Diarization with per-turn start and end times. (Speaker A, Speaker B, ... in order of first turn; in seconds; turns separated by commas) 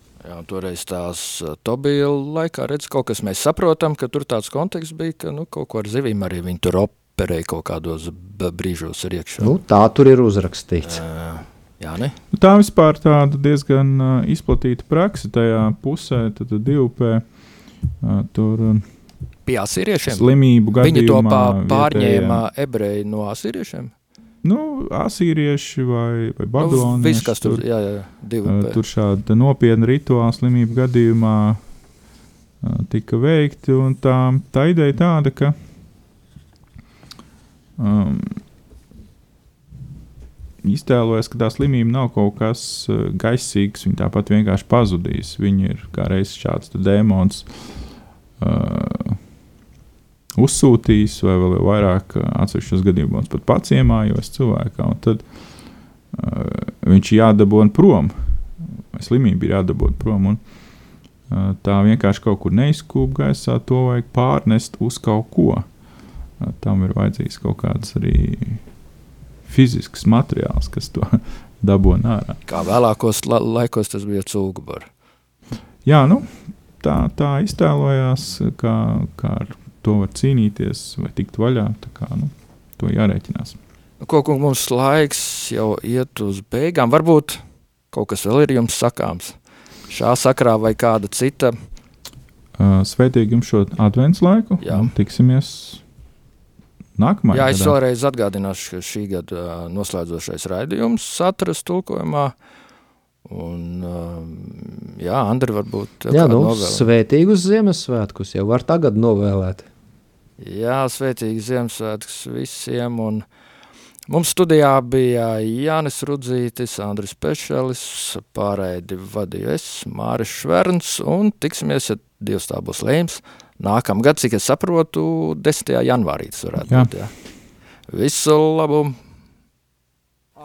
Speaker A: 0.2-9.5, Speaker B: 9.4-11.0, Speaker A: 10.8-12.2, Speaker C: 12.3-17.2, Speaker C: 18.0-18.9, Speaker A: 19.4-23.9, Speaker C: 20.1-22.4, Speaker C: 24.4-27.6, Speaker A: 26.6-28.8, Speaker C: 28.4-31.6, Speaker C: 32.6-35.5, Speaker C: 37.8-38.4, Speaker C: 40.6-47.5, Speaker C: 48.4-49.2, Speaker C: 50.4-55.2, Speaker C: 56.1-60.4, Speaker C: 61.3-65.7, Speaker C: 66.4-68.6, Speaker C: 69.4-72.4, Speaker A: 72.5-74.9, Speaker C: 75.8-83.6, Speaker A: 84.0-89.4, Speaker A: 89.9-91.5, Speaker C: 92.6-95.8, Speaker A: 94.6-94.9, Speaker C: 97.0-97.8, Speaker A: 97.3-102.3, Speaker A: 103.2-106.9, Speaker B: 106.1-109.7, Speaker A: 110.4-113.2, Speaker A: 114.1-127.1, Speaker A: 127.9-129.0